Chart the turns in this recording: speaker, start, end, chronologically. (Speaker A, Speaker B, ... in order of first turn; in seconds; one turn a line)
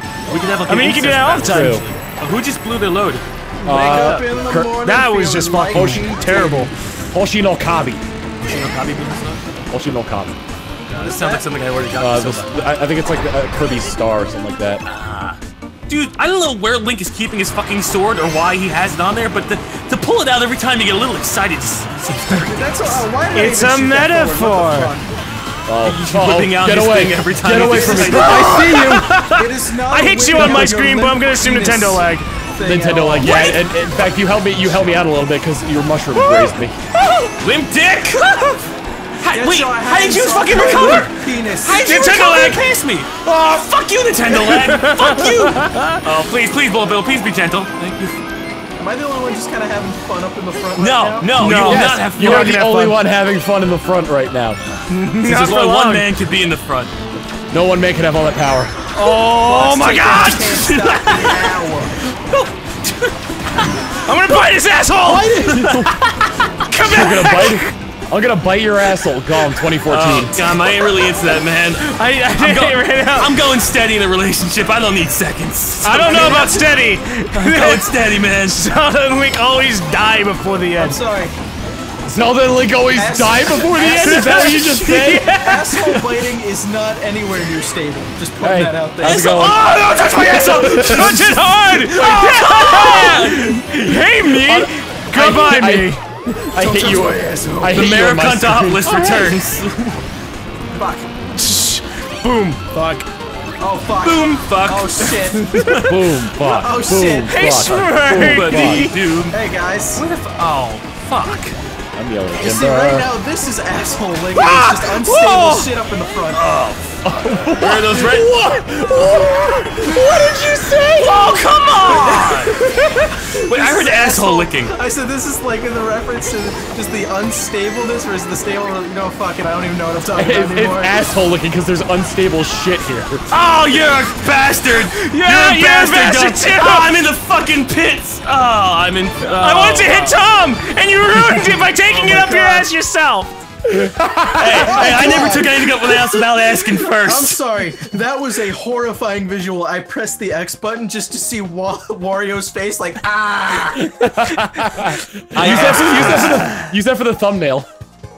Speaker A: 0.3-3.2
Speaker B: 0.7-1.9
Speaker C: 1.4-1.8
Speaker C: 3.6-4.7
Speaker D: 3.6-6.7
Speaker B: 4.8-6.7
Speaker C: 5.7-6.1
Speaker C: 7.1-8.1
Speaker A: 8.4-9.4
Speaker C: 9.7-10.4
Speaker D: 10.9-11.5
Speaker A: 10.9-12.7
Speaker C: 12.0-14.8
Speaker A: 14.8-23.1
Speaker D: 22.4-25.1
Speaker B: 23.3-24.9
Speaker C: 25.7-29.1
Speaker A: 25.8-28.7
Speaker D: 27.7-33.6
Speaker B: 28.3-32.3
Speaker C: 30.3-30.8
Speaker C: 32.6-36.8
Speaker A: 33.3-33.6
Speaker B: 36.1-37.3
Speaker A: 37.4-38.6
Speaker A: 39.2-48.2
Speaker D: 39.3-42.1
Speaker B: 41.8-42.7
Speaker B: 44.3-46.0
Speaker D: 48.8-51.6
Speaker A: 50.8-52.6
Speaker C: 51.4-54.6
Speaker B: 51.4-53.0
Speaker B: 54.9-56.1
Speaker A: 55.2-57.0
Speaker C: 57.5-58.8
Speaker B: 58.9-61.4
Speaker D: 59.0-62.0
Speaker B: 63.9-66.1
Speaker C: 65.0-66.0
Speaker B: 66.7-67.7
Speaker C: 66.8-70.5
Speaker A: 69.9-76.5
Speaker B: 71.8-73.4
Speaker B: 75.8-81.0
Speaker D: 76.0-76.7
Speaker A: 77.3-78.7
Speaker D: 80.8-81.3
Speaker C: 82.0-85.3
Speaker D: 83.0-89.3
Speaker B: 83.9-86.1
Speaker C: 88.4-93.1
Speaker A: 89.0-93.8
Speaker B: 90.6-96.2
Speaker C: 94.3-96.0
Speaker C: 96.5-99.2
Speaker D: 96.5-97.8
Speaker A: 97.7-100.0
Speaker B: 98.9-99.3
Speaker D: 100.7-101.1
Speaker B: 101.3-103.1
Speaker D: 103.6-105.5
Speaker A: 104.0-105.9
Speaker B: 105.3-105.9
Speaker C: 105.8-108.9
Speaker D: 106.4-107.4
Speaker B: 107.3-109.0
Speaker A: 108.1-109.4
Speaker D: 109.3-110.0
Speaker A: 110.0-111.6
Speaker C: 112.0-113.1
Speaker D: 112.4-116.4
Speaker B: 114.4-115.6
Speaker A: 116.3-117.0
Speaker C: 117.0-121.5
Speaker A: 117.6-118.3
Speaker A: 121.0-122.6
Speaker D: 121.9-122.5
Speaker D: 123.3-131.0
Speaker A: 123.3-124.8
Speaker C: 130.1-133.3
Speaker A: 133.3-140.2
Speaker B: 134.8-136.9
Speaker B: 139.2-143.3
Speaker D: 141.8-142.7
Speaker C: 143.7-144.7
Speaker A: 144.3-147.5
Speaker D: 144.4-154.3
Speaker C: 153.8-157.7
Speaker A: 155.3-156.7
Speaker D: 155.4-156.4